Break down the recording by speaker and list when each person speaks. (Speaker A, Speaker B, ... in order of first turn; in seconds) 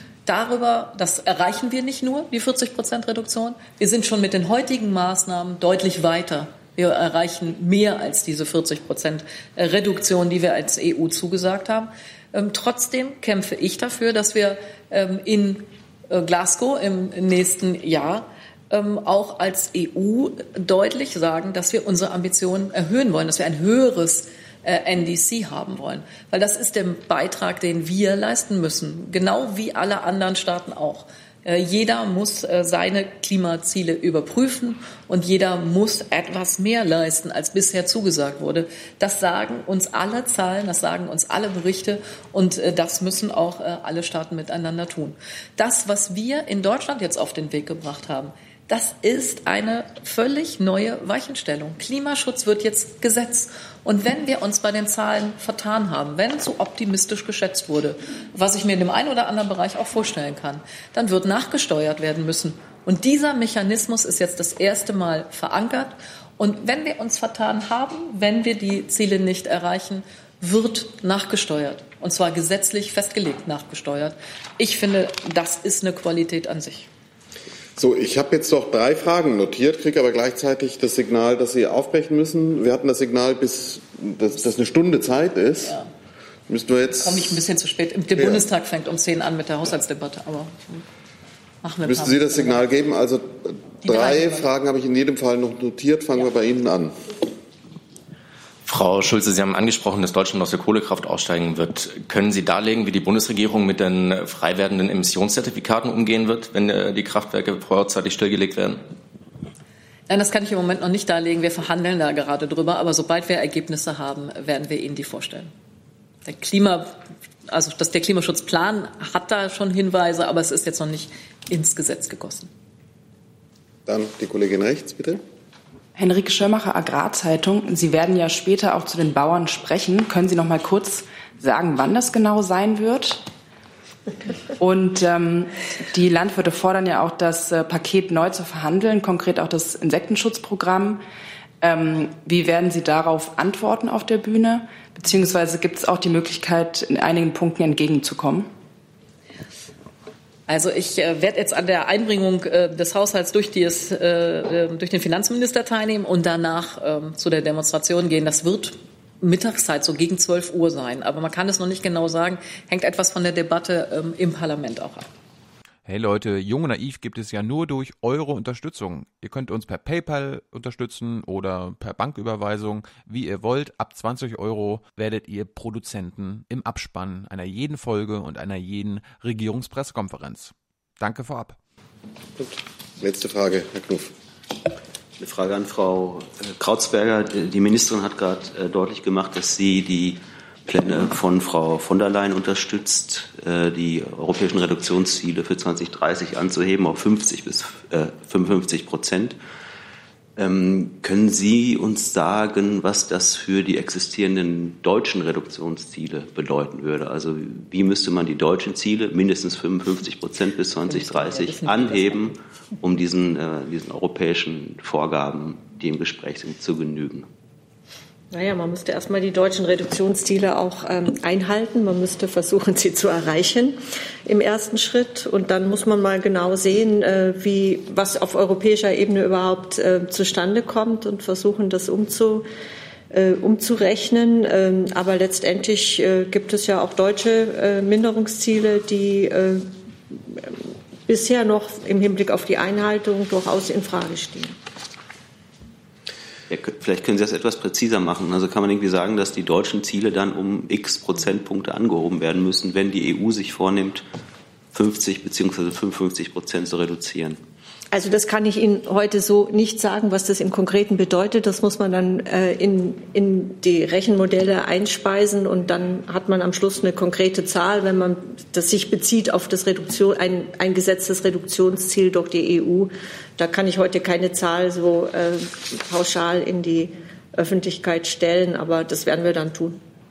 Speaker A: 0.3-76.9, 87.0-90.8, 91.6-92.7, 93.8-94.5, 110.1-115.5, 116.2-117.0, 117.5-122.5, 150.5-165.1, 210.9-212.3
Speaker B: 77.8-85.8, 86.5-87.4, 88.2-88.5, 91.8-97.0, 123.9-125.2, 182.4-184.1
Speaker C: 98.7-108.8
Speaker D: 126.0-133.3, 134.6-141.0, 141.6-148.5
Speaker E: 165.8-181.6
Speaker F: 185.2-199.4, 200.4-217.3, 246.5-254.1, 254.7-257.4
Speaker G: 218.3-232.5, 233.1-244.6, 257.9-279.8